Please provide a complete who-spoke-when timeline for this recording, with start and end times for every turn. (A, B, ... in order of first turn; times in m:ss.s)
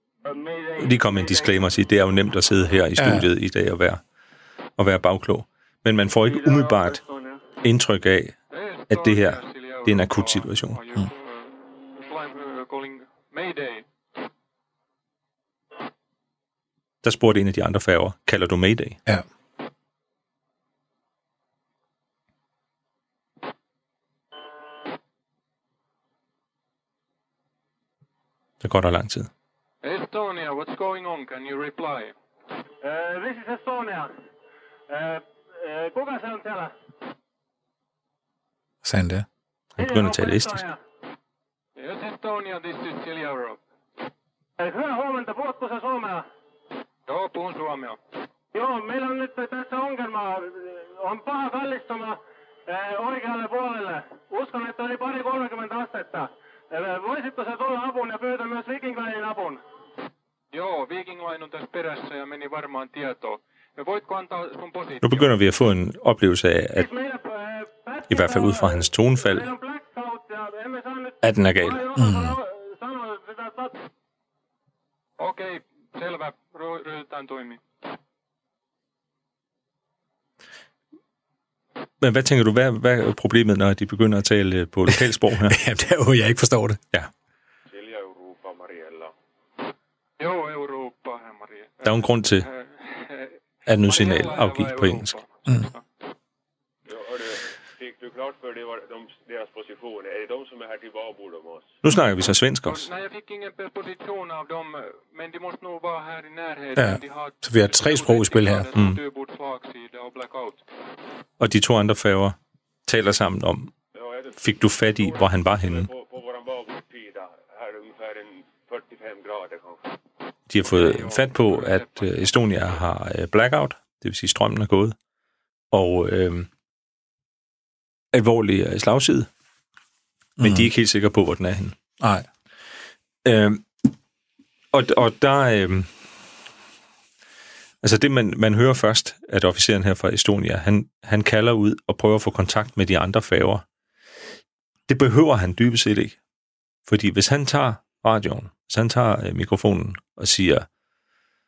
0:00.2-0:01.6 A
0:00.8-0:04.0 B
0:03.0-0:03.3 C
0:04.8-0:07.0 B
0:06.2-0:07.4 A
0:07.6-0:08.4 B
0:08.5-0:13.9 D
0:08.9-0:10.8 B
0:17.0-0:19.0 B
0:28.6-0:29.3 B
0:29.8-0:32.2 D
0:32.8-0:34.1 A
0:34.9-0:36.7 A
0:38.8-0:39.3 C
0:39.8-0:40.7 B
0:39.8-0:40.8 A
0:41.8-0:43.6 D
0:44.6-0:46.3 A
0:47.1-0:48.0 D
0:48.5-0:59.6 A
1:00.5-1:05.3 D
1:05.0-1:06.9 B
1:06.8-1:13.8 A
1:08.1-1:09.5 B
1:11.2-1:11.9 B
1:12.0-1:12.4 C
1:15.2-1:17.6 D
1:22.0-1:25.6 B
1:24.9-1:26.8 C
1:27.7-1:29.1 E
1:30.2-1:35.8 D
1:31.8-1:32.5 B
1:33.7-1:35.2 B
1:36.9-1:41.8 E
1:41.8-1:42.9 B
1:42.6-1:50.6 D
1:46.8-1:48.7 C
1:48.8-1:49.0 B
1:51.4-1:53.7 B
1:54.0-2:00.0 E
1:54.4-1:55.9 B
2:00.5-2:05.0 B
2:00.7-2:02.1 D
2:05.7-2:06.5 B
2:08.1-2:09.3 B
2:10.4-2:11.8 B
2:10.4-2:10.7 C
2:12.0-2:12.3 C
2:13.2-2:13.9 B
2:14.7-2:15.9 B
2:17.8-2:23.6 B
2:24.9-2:26.2 B
2:26.9-2:30.7 B